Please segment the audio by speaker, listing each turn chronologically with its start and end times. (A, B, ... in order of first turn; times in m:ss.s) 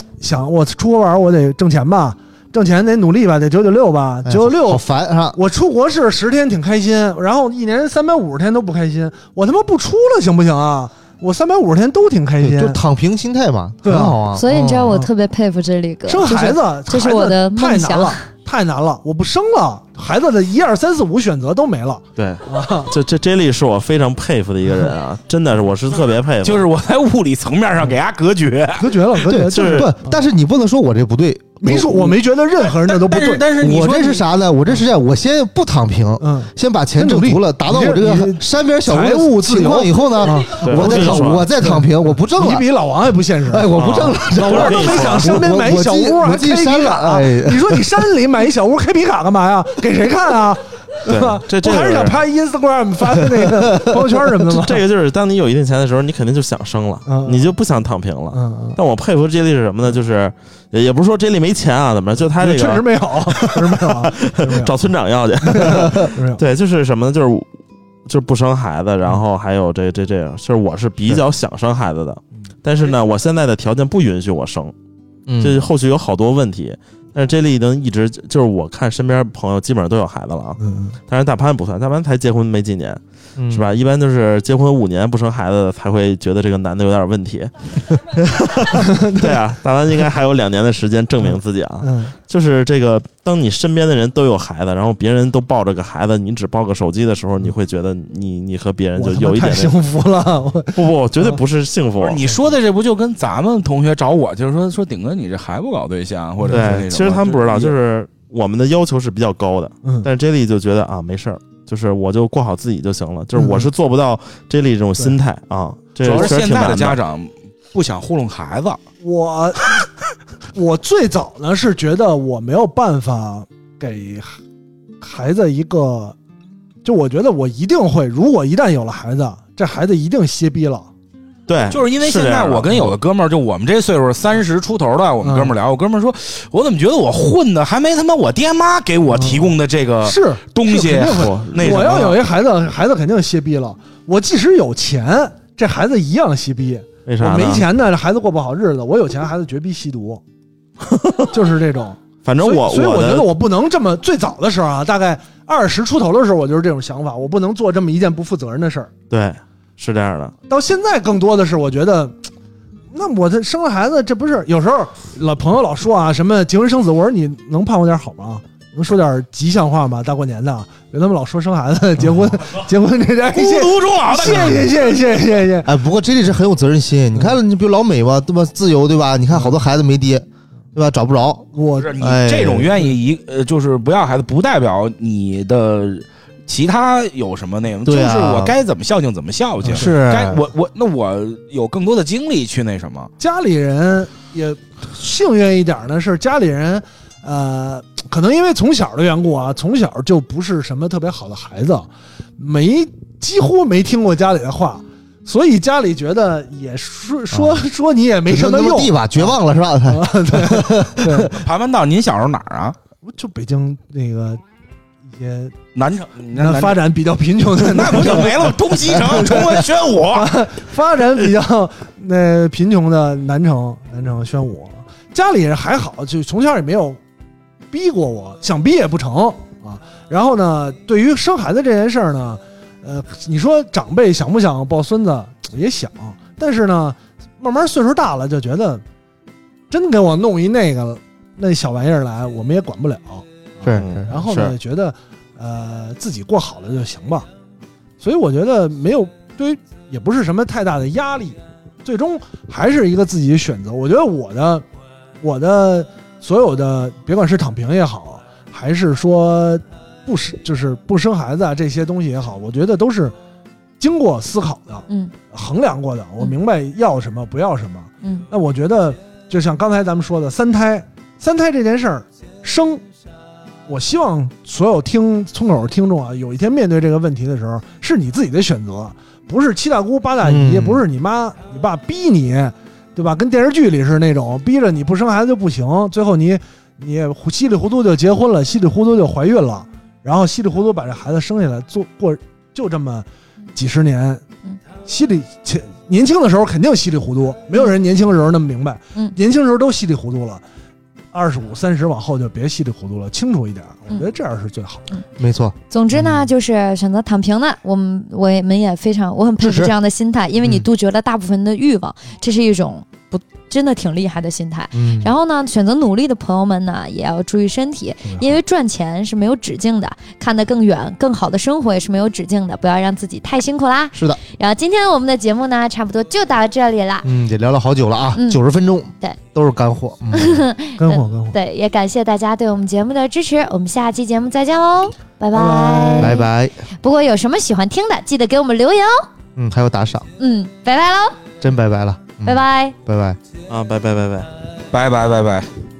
0:00.2-0:12.8 A
0:04.2-0:05.4 B
0:12.4-0:15.1 B
0:13.8-0:14.2 A
0:14.3-0:18.2 C
0:16.1-0:22.9 A
0:22.2-0:26.7 D
0:26.4-0:28.9 E
0:28.8-0:30.2 A
0:29.2-0:32.2 B
0:29.5-0:29.9 D
0:31.6-0:33.5 A
0:32.6-0:34.2 E
0:33.6-0:42.6 B
0:36.2-0:54.8 A
0:40.6-0:41.5 D
0:43.5-0:47.9 B
0:43.8-0:45.5 D
0:51.1-0:52.2 D
0:53.6-0:54.1 B
0:54.5-1:07.5 D
0:57.1-0:57.5 A
0:58.3-0:58.8 A
1:02.4-1:04.7 A
1:05.4-1:06.4 A
1:08.1-1:14.7 D
1:15.3-1:15.6 B
1:15.4-1:39.8 D
1:20.6-1:21.0 A
1:23.4-1:23.7 B
1:28.7-1:29.4 A
1:31.2-1:32.1 A
1:39.0-1:41.4 A
1:40.8-1:42.2 D
1:42.0-1:47.8 E
1:46.4-1:46.9 A
1:46.5-1:57.0 D
1:53.4-1:53.7 A
1:56.0-1:58.8 E
1:59.0-1:59.8 A
2:00.5-2:04.4 A
2:05.0-2:06.2 A
2:06.8-2:10.9 A
2:11.5-2:13.0 D
2:11.7-2:22.3 E
2:15.2-2:15.6 A
2:19.2-2:30.2 A
2:21.0-2:21.9 D
2:27.1-2:27.6 D
2:30.9-2:31.3 D
2:31.3-2:38.9 A
2:32.2-2:33.3 D
2:39.1-2:40.3 D
2:40.5-2:42.2 A
2:42.9-2:55.7 A
2:53.3-2:54.8 E
2:55.6-3:02.7 B
3:01.5-3:02.0 A
3:01.8-3:13.1 E
3:07.8-3:08.6 B
3:09.6-3:09.9 A
3:09.7-3:10.4 B
3:13.2-3:31.4 A
3:27.3-3:27.6 B
3:28.3-3:31.3 B
3:31.4-3:32.8 E
3:33.0-3:34.4 A
3:35.1-3:35.6 A
3:35.8-3:36.8 E
3:36.4-3:47.0 A
3:37.6-3:40.4 E
3:47.7-3:58.8 A
3:59.7-4:07.3 A
4:03.6-4:04.1 B
4:03.8-4:04.6 D
4:08.0-4:14.6 A
4:15.2-4:23.1 A
4:23.8-4:32.8 A
4:24.9-4:25.1 C
4:33.7-4:54.2 A
4:40.2-4:40.8 B
4:54.9-5:00.4 A
5:01.1-5:04.9 A
5:05.2-5:06.3 B
5:05.7-5:27.1 C
5:09.4-5:09.7 B
5:14.7-5:15.1 B
5:23.9-5:24.2 B
5:27.0-5:30.4 B
5:28.1-5:28.4 C
5:30.1-5:36.3 C
5:30.8-5:31.4 A
5:35.3-5:36.2 A
5:36.0-5:36.6 B
5:36.8-5:39.1 C
5:39.4-5:40.1 B
5:40.2-5:41.2 C
5:41.4-5:43.2 B
5:42.2-5:42.8 C
5:43.5-5:44.3 D
5:44.7-5:45.5 E